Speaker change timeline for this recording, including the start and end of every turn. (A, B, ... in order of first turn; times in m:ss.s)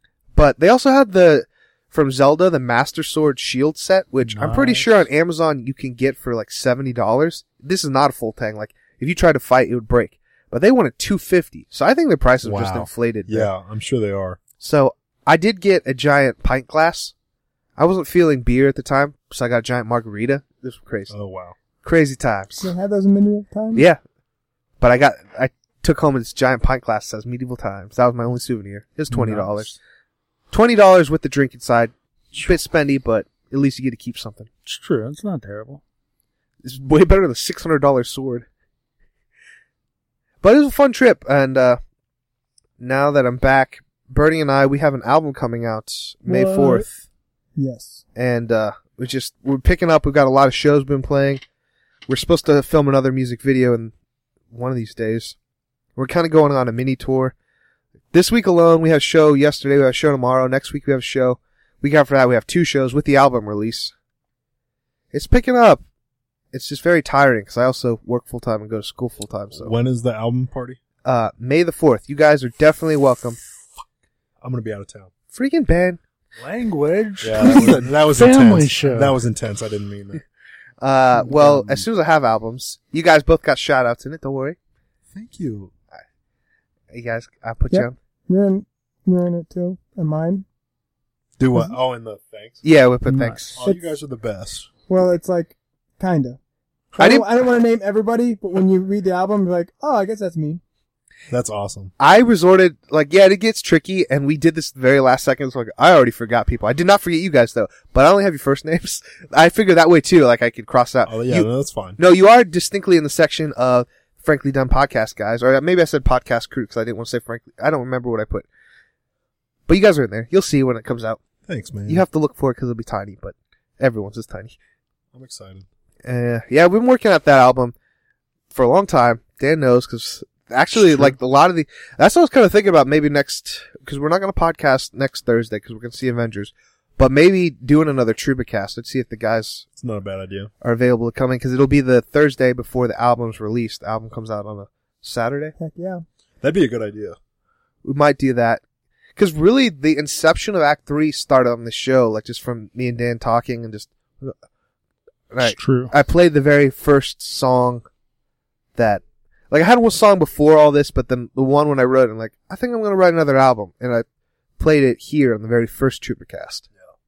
0:00.3-0:13.5 A
0:04.2-0:05.0 B
0:12.4-0:14.4 C
0:14.6-0:17.1 A
0:17.8-0:21.1 A
0:21.1-0:21.6 C
0:21.8-0:22.7 A
0:22.6-0:23.8 D
0:23.7-0:24.0 A
0:24.8-0:29.7 A
0:29.1-0:29.8 B
0:30.5-0:34.5 A
0:34.6-0:35.8 B
0:36.6-0:38.4 A
0:40.4-0:41.8 A
0:42.8-0:47.0 A
0:46.3-0:46.9 B
0:47.6-0:48.0 D
0:48.2-0:51.4 A
0:52.1-0:53.9 A
0:54.5-0:55.4 A
0:56.0-0:57.3 A
0:58.1-1:03.9 A
1:05.1-1:05.8 A
1:06.5-1:09.7 A
1:09.5-1:10.8 C
1:11.0-1:13.4 A
1:14.4-1:15.1 C
1:15.3-1:16.0 A
1:16.4-1:19.2 B
1:17.2-1:20.2 C
1:20.8-1:24.6 A
1:21.3-1:21.8 B
1:25.1-1:25.7 C
1:26.9-1:28.0 A
1:27.7-1:30.4 D
1:31.4-1:32.6 C
1:32.6-1:33.5 A
1:33.0-1:33.6 B
1:33.5-1:34.7 C
1:33.6-1:33.9 D
1:34.9-1:36.4 D
1:37.0-1:40.6 D
1:37.0-1:37.2 A
1:41.3-1:41.9 C
1:42.0-1:58.4 A
1:51.0-1:52.0 C
1:59.7-2:01.2 A
2:01.5-2:02.0 C
2:01.9-2:04.5 A
2:05.1-2:05.6 C
2:06.0-2:07.7 A
2:08.5-2:19.6 A
2:10.9-2:11.1 C
2:19.8-2:20.5 C
2:20.6-2:25.5 A
2:25.6-2:26.0 D
2:26.4-2:27.2 C
2:27.8-2:28.6 A
2:29.2-2:34.3 A
2:35.3-2:37.8 A
2:35.4-2:35.9 B
2:38.8-2:44.0 A
2:44.6-2:46.7 A